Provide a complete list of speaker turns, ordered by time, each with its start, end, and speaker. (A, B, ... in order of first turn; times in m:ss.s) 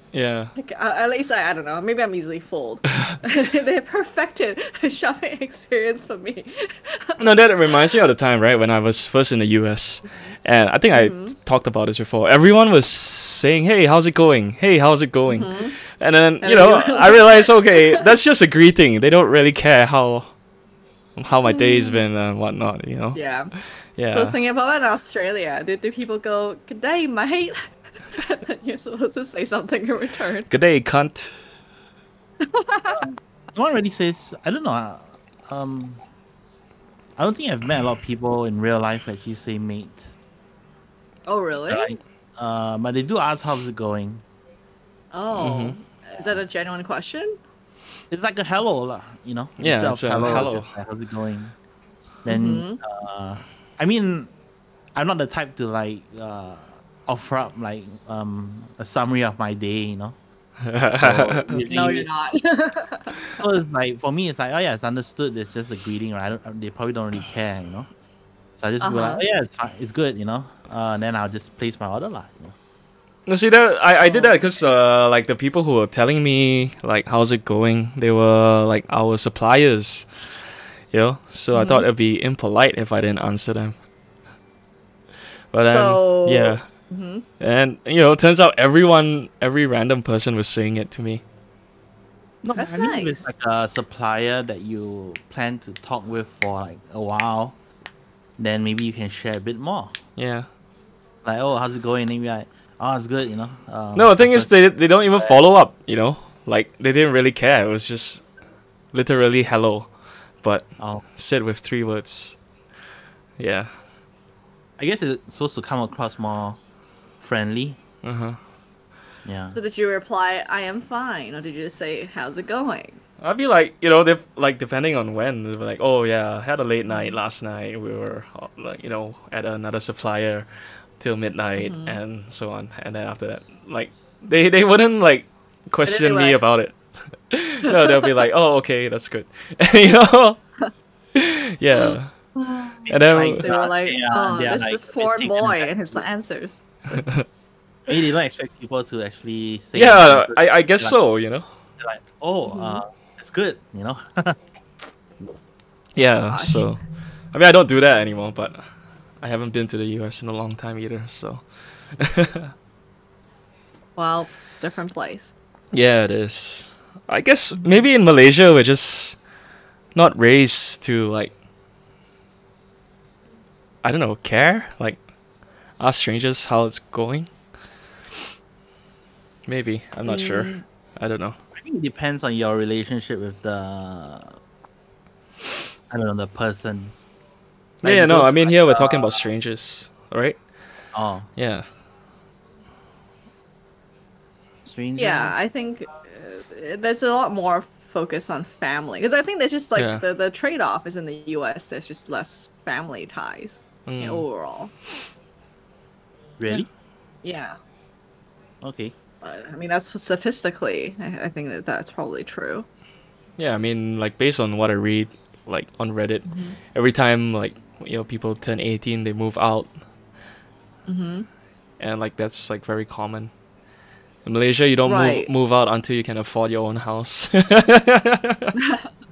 0:00.1-0:00.5 A
0:00.6-0:07.2 B
0:07.2-0:20.3 A
0:10.9-0:11.4 B
0:15.3-0:15.8 B
0:16.4-0:18.0 B
0:21.2-0:23.2 A
0:21.4-0:22.0 B
0:23.1-0:23.5 B
0:24.0-0:24.4 A
0:24.1-0:30.5 B
0:30.5-0:31.3 A
0:32.4-0:33.0 B
0:32.9-0:36.0 C
0:37.2-0:40.1 C
0:41.2-0:41.9 B
0:41.7-0:44.2 C
0:45.1-0:47.4 B
0:45.3-0:45.8 A
0:48.1-0:51.5 C
0:49.6-0:50.7 A
0:52.2-0:54.3 C
0:52.3-0:52.8 B
0:54.9-1:00.2 C
1:00.6-1:01.6 A
1:00.9-1:02.1 C
1:01.6-1:03.4 B
1:03.4-1:07.9 C
1:08.6-1:12.5 C
1:08.8-1:09.2 B
1:13.3-1:20.1 A
1:14.0-1:14.4 B
1:20.9-1:23.8 A
1:21.5-1:21.9 B
1:25.5-1:26.6 A
1:25.7-1:27.2 B
1:27.4-1:31.2 A
1:32.4-1:37.6 C
1:32.5-1:33.3 B
1:38.4-1:40.0 C
1:40.2-1:40.5 A
1:41.2-1:44.5 C
1:43.9-1:48.2 A
1:48.9-1:49.9 A
1:50.4-1:52.4 A
1:50.8-1:51.0 C
1:53.4-1:53.7 A
1:54.8-1:56.6 C
1:57.2-1:57.8 C
1:58.0-1:58.4 A
1:59.2-1:59.6 C
1:59.5-2:03.0 B
2:03.2-2:10.5 A
2:06.9-2:07.2 B
2:11.0-2:20.4 A
2:11.6-2:12.0 B
2:15.8-2:16.4 B
2:17.7-2:18.1 B
2:21.1-2:22.1 A
2:21.7-2:26.6 B
2:22.8-2:26.0 C
2:22.9-2:23.5 A
2:26.9-2:27.2 A
2:27.9-2:31.0 C
2:29.7-2:31.5 A
2:31.8-2:34.4 C
2:32.4-2:32.8 B
2:36.0-2:38.6 A
2:36.3-2:36.7 B
2:39.2-2:41.4 A
2:41.9-2:42.5 A
2:44.0-2:45.3 B
2:45.7-2:49.2 A
2:49.9-2:51.3 A
2:53.8-2:55.0 A
2:55.8-2:57.3 A
2:59.5-3:01.4 A
3:00.0-3:00.6 B
3:01.6-3:04.4 C
3:05.9-3:06.9 C
3:07.8-3:09.2 C
3:07.8-3:10.4 A
3:10.9-3:11.3 C
3:11.4-3:11.6 A
3:14.6-3:15.3 C
3:15.0-3:24.7 B
3:19.8-3:20.0 A
3:23.8-3:24.2 A
3:26.4-3:26.7 C
3:27.2-3:27.6 B
3:28.6-3:28.9 C
3:29.2-3:32.6 B
3:33.4-3:39.7 A
3:36.2-3:36.6 B
3:40.8-3:41.3 B
3:41.8-3:43.3 A
3:44.2-3:48.6 A
3:44.8-3:45.3 B
3:48.6-3:48.9 B